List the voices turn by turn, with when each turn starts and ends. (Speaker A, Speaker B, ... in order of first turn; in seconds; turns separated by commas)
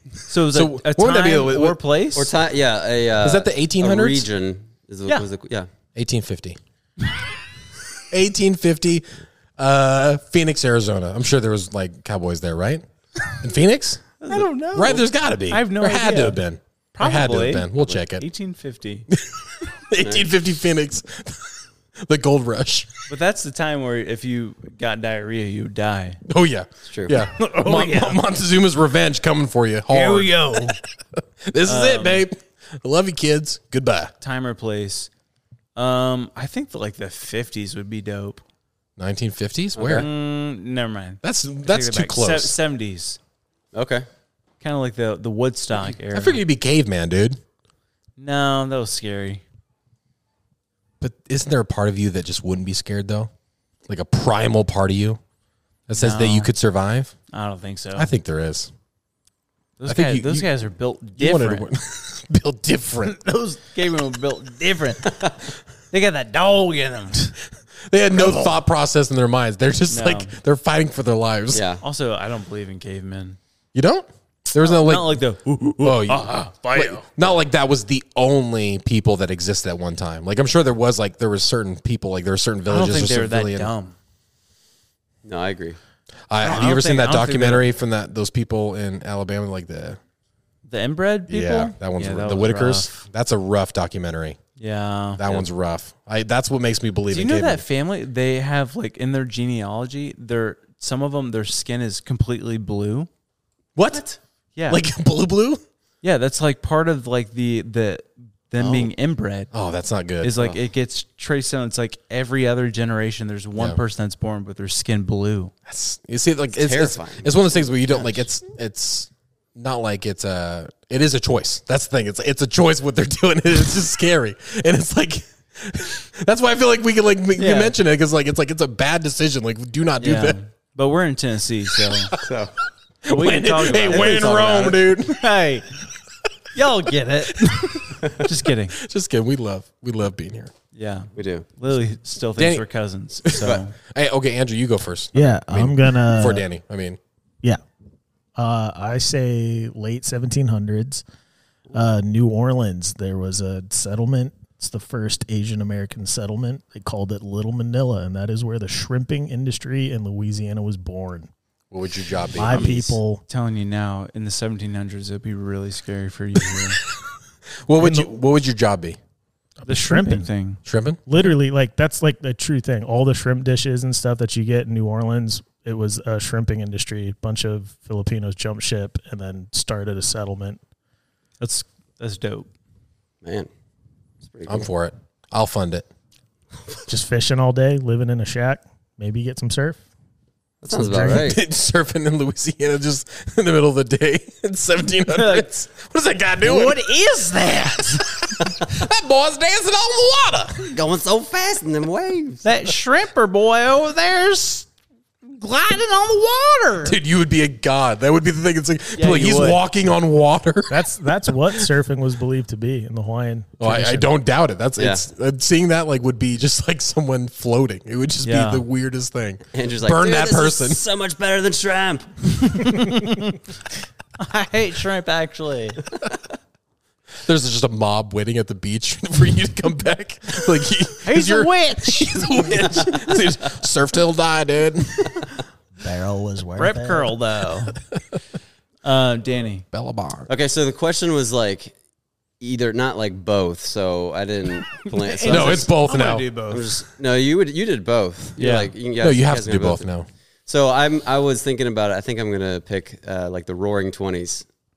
Speaker A: 0.3-2.3, Speaker B: 0.5-1.8, Speaker C: 2.2-5.7, Speaker B: 3.2-4.3, Speaker B: 6.0-6.6, Speaker B: 8.1-14.1, Speaker A: 14.2-16.4, Speaker B: 14.7-18.3, Speaker A: 17.0-19.1, Speaker B: 19.1-22.9, Speaker C: 20.0-20.3, Speaker A: 23.1-26.2, Speaker B: 26.3-30.9, Speaker C: 26.9-27.2, Speaker A: 27.1-28.2, Speaker A: 29.9-30.8, Speaker B: 31.5-34.1, Speaker A: 31.7-32.3, Speaker A: 34.2-35.1, Speaker A: 35.8-38.4, Speaker B: 39.0-40.1, Speaker C: 39.8-40.1, Speaker A: 39.9-43.2, Speaker B: 41.2-42.6, Speaker C: 43.7-44.1, Speaker A: 44.6-46.4, Speaker B: 45.8-47.4, Speaker A: 48.2-49.4, Speaker B: 51.0-53.3, Speaker B: 53.9-55.2, Speaker B: 55.9-57.2, Speaker A: 55.9-56.5, Speaker A: 57.3-58.1, Speaker B: 58.0-58.7, Speaker A: 59.8-61.7, Speaker B: 59.9-60.5, Speaker B: 61.2-63.2, Speaker A: 63.0-65.3, Speaker A: 65.9-67.3, Speaker B: 67.8-71.6, Speaker A: 68.2-68.5, Speaker A: 69.9-70.3, Speaker C: 71.5-71.8, Speaker A: 71.8-73.4, Speaker B: 73.7-75.2, Speaker A: 74.6-77.1, Speaker B: 75.8-83.7, Speaker A: 82.7-84.0, Speaker C: 85.2-85.8, Speaker B: 86.3-90.0, Speaker A: 86.4-87.7, Speaker A: 90.7-93.0, Speaker B: 91.3-94.4, Speaker A: 94.6-95.3, Speaker B: 95.2-97.6, Speaker A: 97.1-103.1, Speaker B: 103.8-104.1, Speaker A: 104.6-104.8, Speaker B: 104.7-105.6, Speaker A: 106.0-109.5, Speaker C: 108.6-108.9, Speaker B: 109.5-110.5, Speaker A: 110.2-115.5, Speaker B: 115.7-130.4, Speaker C: 116.6-118.2, Speaker A: 127.4-127.7, Speaker A: 130.0-132.1, Speaker B: 131.8-132.3, Speaker C: 132.2-132.5, Speaker B: 133.0-135.3, Speaker A: 133.1-135.7, Speaker C: 133.7-134.8, Speaker A: 136.6-138.8, Speaker B: 137.4-138.0, Speaker B: 138.8-140.5, Speaker A: 140.7-143.8, Speaker C: 141.2-141.5, Speaker B: 142.3-142.7, Speaker B: 143.2-147.0, Speaker D: 145.1-146.5, Speaker D: 148.4-151.0, Speaker D: 151.7-161.3, Speaker B: 161.7-163.0, Speaker D: 162.3-163.2, Speaker A: 162.5-166.8, Speaker B: 167.7-169.0, Speaker D: 167.8-168.1, Speaker D: 169.6-170.3, Speaker A: 169.7-170.6, Speaker B: 170.7-171.0, Speaker D: 171.1-180.6, Speaker A: 181.4-182.5, Speaker C: 183.2-183.5, Speaker C: 184.2-184.7, Speaker B: 184.5-185.9, Speaker D: 186.9-189.8, Speaker C: 190.6-191.4, Speaker D: 190.7-191.2, Speaker B: 191.0-196.8, Speaker A: 195.1-195.6, Speaker A: 196.4-198.1, Speaker B: 197.9-200.7, Speaker C: 200.7-202.4, Speaker A: 202.4-204.7, Speaker A: 205.2-207.0, Speaker B: 206.8-210.9, Speaker A: 209.0-209.6, Speaker D: 210.7-214.1, Speaker B: 213.6-220.8, Speaker C: 214.8-215.1, Speaker A: 218.2-218.6, Speaker C: 219.5-222.6, Speaker A: 222.4-223.4, Speaker A: 224.2-225.8, Speaker B: 227.2-235.3, Speaker A: 231.0-232.2, Speaker D: 235.8-237.1, Speaker A: 236.6-237.7, Speaker A: 238.8-239.7, Speaker B: 239.7-240.3, Speaker C: 240.3-241.7, Speaker C: 242.4-245.7, Speaker A: 244.8-246.7, Speaker B: 245.3-246.3, Speaker C: 246.5-249.9, Speaker A: 248.4-248.7, Speaker B: 249.0-250.1, Speaker C: 250.5-254.5